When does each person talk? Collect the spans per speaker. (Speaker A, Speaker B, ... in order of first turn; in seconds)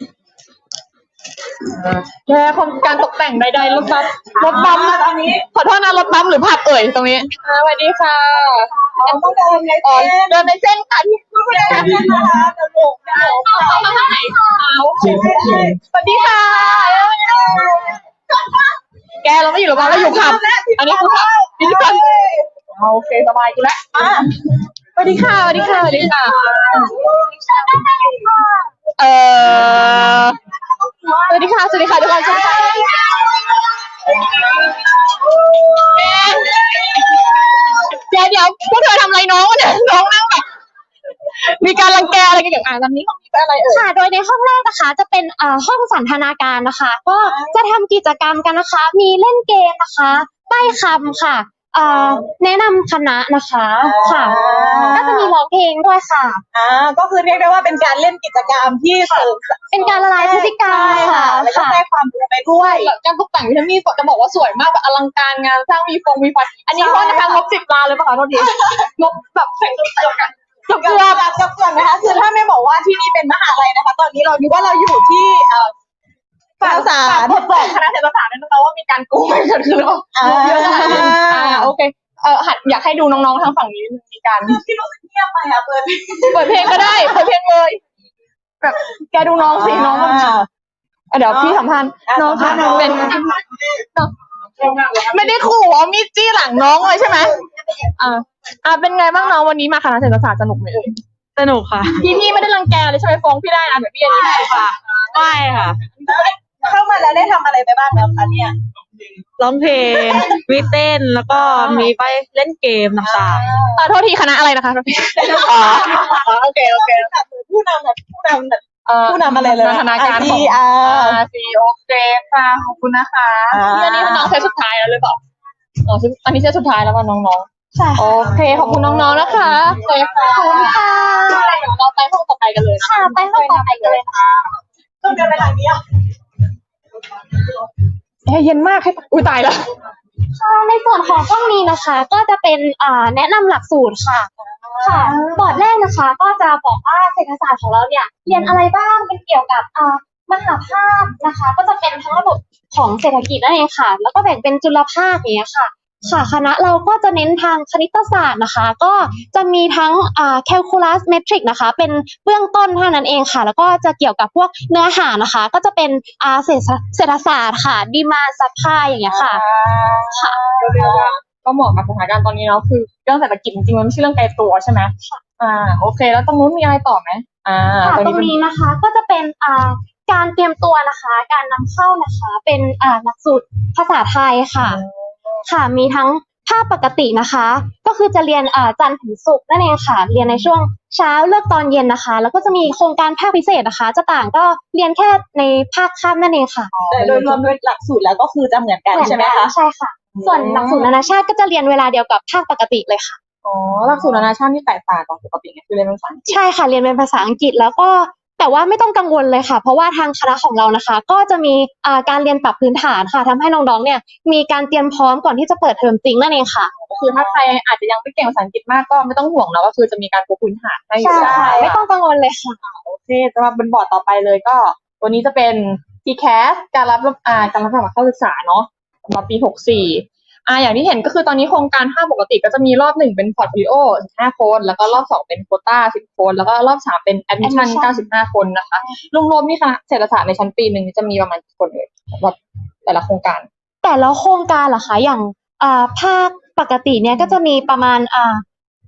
Speaker A: 1.7-12.3, 13.1-17.6, 19.2-22.0, 22.7-23.9, 25.0-27.0, 29.0-30.4, 31.3-33.4, 34.1-34.8, 35.8-40.5, 41.4-43.9, 62.6-71.2, 76.6-84.6, 86.3-87.8, 88.6-90.3, 91.1-93.3, 94.0-97.4, 98.0-101.0, 101.9-105.7, 113.8-116.0, 118.8-125.2, 125.8-134.4, 138.3-139.7, 170.6-178.4, 184.6-185.5, 196.7-197.4, 203.4-206.4, 217.0-221.8, 222.6-243.5
Speaker B: 4.3-5.5, 8.9-10.4, 11.4-14.1, 15.0-15.8, 16.7-18.6, 19.8-22.5, 23.9-24.3, 26.6-27.1, 47.2-47.6, 51.9-52.2, 53.8-55.3, 56.5-62.9, 66.7-67.4, 68.4-68.8, 70.7-75.7, 76.6-77.8, 80.2-81.7, 84.5-87.3, 89.4-90.5, 91.3-93.8, 104.1-104.7, 105.4-108.5, 109.7-110.8, 111.3-112.0, 113.0-113.9, 115.1-121.2, 123.5-124.4, 127.8-131.1, 135.0-135.8, 144.5-145.6, 169.1-171.1, 196.9-199.5, 200.2-200.9, 216.8-217.4, 221.1-221.8
Speaker C: 13.3-14.7, 25.6-28.5, 43.7-54.4, 54.9-56.4, 59.7-61.8, 130.2-131.6, 132.8-134.2, 140.3-144.3, 144.8-169.4, 170.1-170.4, 177.8-184.8, 185.5-196.7, 198.9-203.2, 206.3-216.7, 221.0-222.6, 237.4-238.1, 243.8-248.4
Speaker D: 101.4-101.9, 104.3-104.6, 105.1-105.8, 109.4-113.4, 115.4-117.1